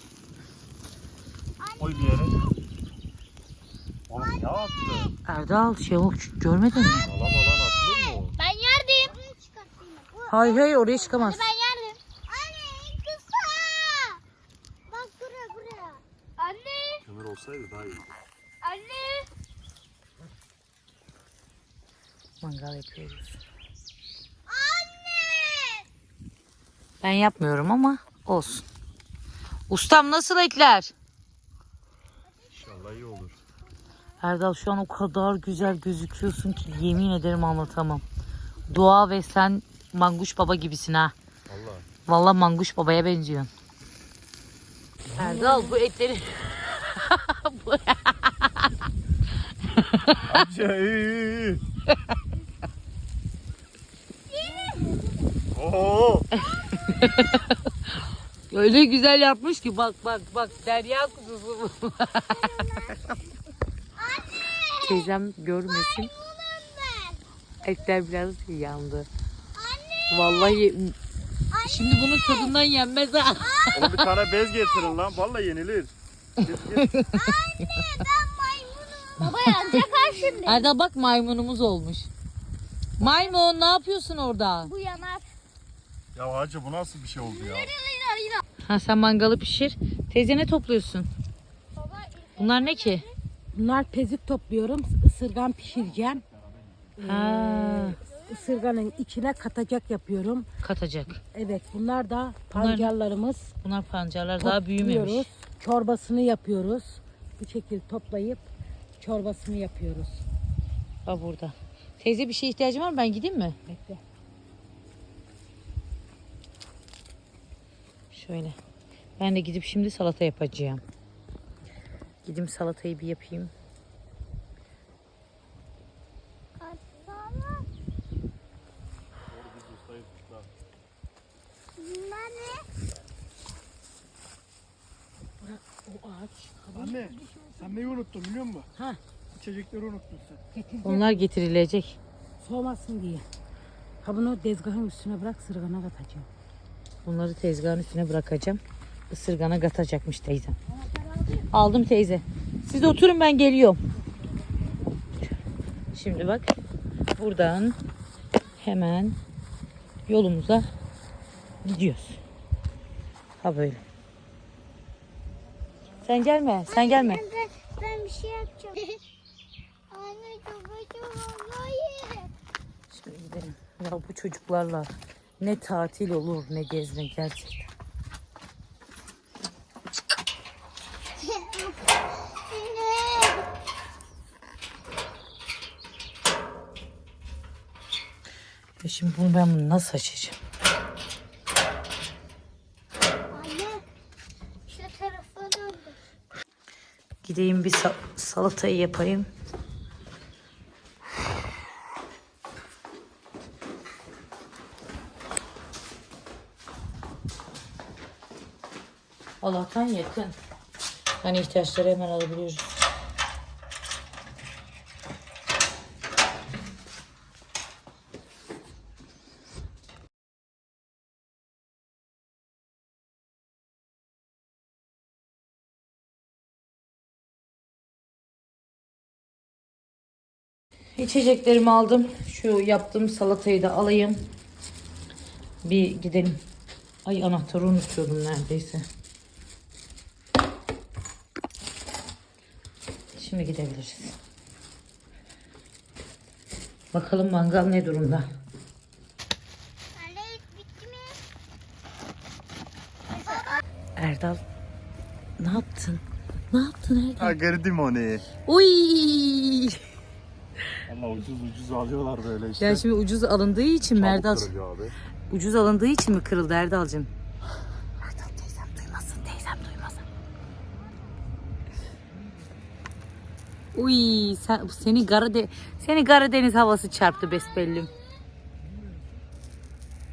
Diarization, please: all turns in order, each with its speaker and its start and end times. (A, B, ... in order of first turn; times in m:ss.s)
0:01.8-0:02.4 A
0:04.1-0:05.1 A
0:05.2-0:07.1 B
0:07.1-0:08.4 A
0:08.4-0:10.6 C
0:10.3-0:11.5 B
0:11.1-0:14.2 C
0:14.9-0:17.0 C
0:17.0-0:18.1 A
0:18.6-0:19.3 C
0:22.4-0:23.4 B
0:24.5-0:25.8 C
0:27.0-0:28.6 B
0:29.7-0:30.9 B
0:32.5-0:33.4 A
0:34.2-0:38.0 B
0:38.7-0:41.1 B
0:41.5-0:41.9 A
0:42.1-0:43.5 B
0:45.1-0:48.7 B
0:49.7-0:50.4 B
0:50.3-0:51.6 A
0:55.5-0:56.3 A
0:56.4-0:57.6 B
0:58.5-1:02.7 B
1:04.7-1:06.1 B
1:06.5-1:07.1 C
1:06.8-1:07.2 D
1:07.6-1:09.1 B
1:09.6-1:10.0 C
1:10.1-1:11.0 B
1:11.6-1:14.0 B
1:13.7-1:15.9 A
1:16.4-1:17.0 A
1:16.8-1:18.0 B
1:18.1-1:20.6 C
1:19.2-1:22.1 B
1:23.0-1:24.7 B
1:24.7-1:25.3 C
1:26.1-1:27.8 A
1:27.6-1:28.4 C
1:28.6-1:31.1 B
1:31.8-1:32.4 C
1:32.4-1:33.1 B
1:33.5-1:36.2 E
1:37.0-1:40.5 E
1:37.0-1:38.0 B
1:40.6-1:41.2 B
1:41.3-1:43.5 E
1:42.5-1:42.9 B
1:43.6-1:45.3 B
1:44.4-1:48.5 E
1:49.0-1:50.2 E
1:51.0-1:53.6 B
1:53.7-1:54.0 E
1:58.1-1:58.6 B
1:59.2-2:00.8 B
2:02.2-2:03.5 B
2:06.6-2:07.7 C
2:09.3-2:10.5 A
2:11.8-2:12.6 C
2:11.9-2:12.3 D
2:15.4-2:18.0 E
2:17.9-2:18.7 D
2:19.4-2:20.4 D
2:20.5-2:21.2 E
2:20.8-2:22.0 B
2:22.4-2:23.3 E
2:24.0-2:26.3 E
2:27.0-2:30.6 B
2:31.5-2:33.8 B
2:35.9-2:36.5 B
2:37.2-2:37.8 B
2:38.6-2:39.2 B
2:40.1-2:40.7 B
2:41.6-2:42.2 B
2:43.4-2:43.8 B
2:46.0-2:47.3 B
2:46.8-2:49.0 C
2:47.8-2:48.8 D
2:49.9-2:52.3 C
2:52.9-2:57.7 B
3:02.5-3:03.0 D
3:03.0-3:03.4 C
3:08.8-3:10.4 B
3:13.3-3:13.8 C
3:14.7-3:16.0 C
3:17.2-3:19.3 B
3:29.4-3:30.4 B
3:31.2-3:32.7 B
3:51.0-3:54.2 B
3:55.6-3:56.4 B
3:57.0-3:58.9 B
4:03.2-4:04.2 B
4:06.9-4:08.3 B
4:10.0-4:11.2 C
4:14.0-4:14.4 B
4:15.4-4:17.4 B
4:17.2-4:18.3 A
4:18.4-4:19.8 B
4:20.9-4:22.8 A
4:22.6-4:24.5 B
4:24.0-4:25.0 A
4:25.3-4:27.1 B
4:28.0-4:30.0 B
4:33.7-4:37.9 B